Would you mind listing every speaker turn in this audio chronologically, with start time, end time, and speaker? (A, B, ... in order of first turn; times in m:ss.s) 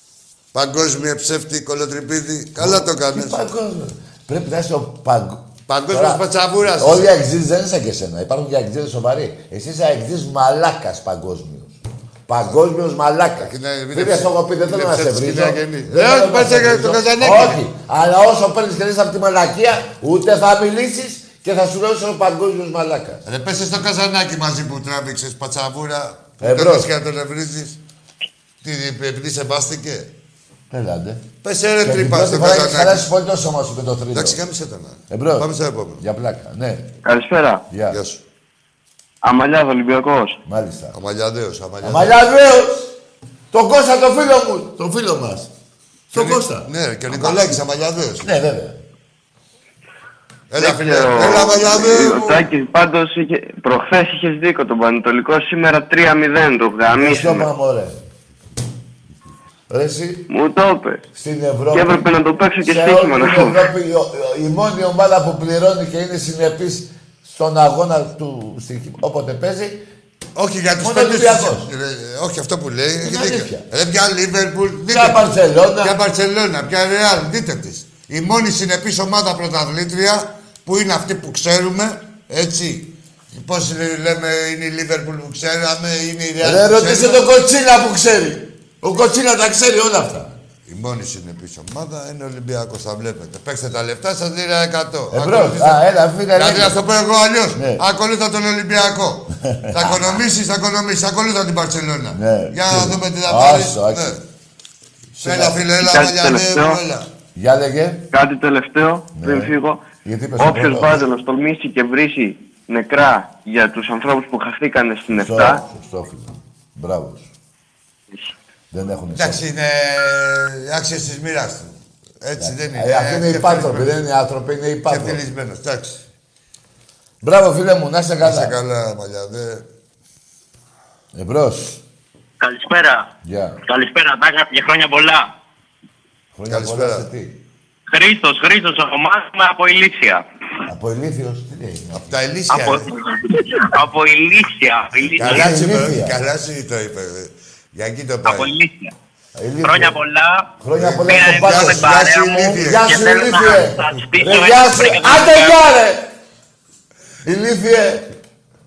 0:00.5-0:03.4 A
0:02.6-0:06.2 B
0:05.7-0:07.2 A
0:06.8-0:23.2 B
0:13.4-0:17.6 A
0:23.2-0:27.8 A
0:26.4-0:26.9 B
0:28.6-0:30.1 A
0:30.7-0:31.2 B
0:31.4-0:33.1 A
0:31.8-0:34.4 B
0:34.1-0:36.0 A
0:35.1-0:35.5 B
0:36.0-0:36.9 B
0:37.0-0:37.6 C
0:37.7-0:38.0 B
0:37.9-0:38.2 A
0:39.2-0:40.4 C
0:40.4-0:40.9 B
0:40.9-0:42.2 A
0:41.8-0:42.9 B
0:43.5-0:45.5 B
0:46.1-0:47.6 B
0:46.1-0:48.3 A
0:48.2-0:48.8 B
0:50.5-0:52.5 A
0:50.6-0:57.5 C
0:56.9-0:58.0 B
0:59.7-1:00.3 B
1:00.3-1:01.0 C
1:01.1-1:02.1 B
1:01.7-1:03.6 C
1:02.6-1:09.8 B
1:10.3-1:27.2 A
1:10.8-1:11.7 B
1:13.0-1:13.6 B
1:14.9-1:15.9 B
1:26.4-1:30.4 B
1:30.6-1:44.2 A
1:35.1-1:36.8 B
1:37.5-1:37.8 B
1:39.4-1:40.0 B
1:42.1-1:44.2 B
1:45.1-1:45.6 B
1:45.2-1:47.1 A
1:45.8-1:46.8 C
1:47.3-1:48.1 B
1:48.1-1:49.8 C
1:49.1-1:51.0 B
1:50.4-1:55.6 C
1:55.1-1:57.3 B
1:58.7-1:59.4 B
1:59.1-2:04.0 A
2:02.4-2:05.2 B
2:04.8-2:06.0 A
2:07.2-2:08.6 B
2:08.2-2:09.6 A
2:11.1-2:11.8 B
2:12.4-2:13.1 D
2:13.2-2:13.6 B
2:13.6-2:15.3 D
2:16.3-2:17.4 B
2:16.5-2:17.1 A
2:17.9-2:20.2 D
2:20.6-2:22.2 B
2:21.9-2:22.9 A
2:22.5-2:25.5 D
2:25.2-2:28.5 A
2:25.2-2:26.2 B
2:28.2-2:28.9 D
2:29.4-2:30.0 B
2:29.6-2:35.6 D
2:30.6-2:32.0 B
2:30.7-2:33.0 A
2:32.6-2:36.1 B
2:37.2-2:38.1 B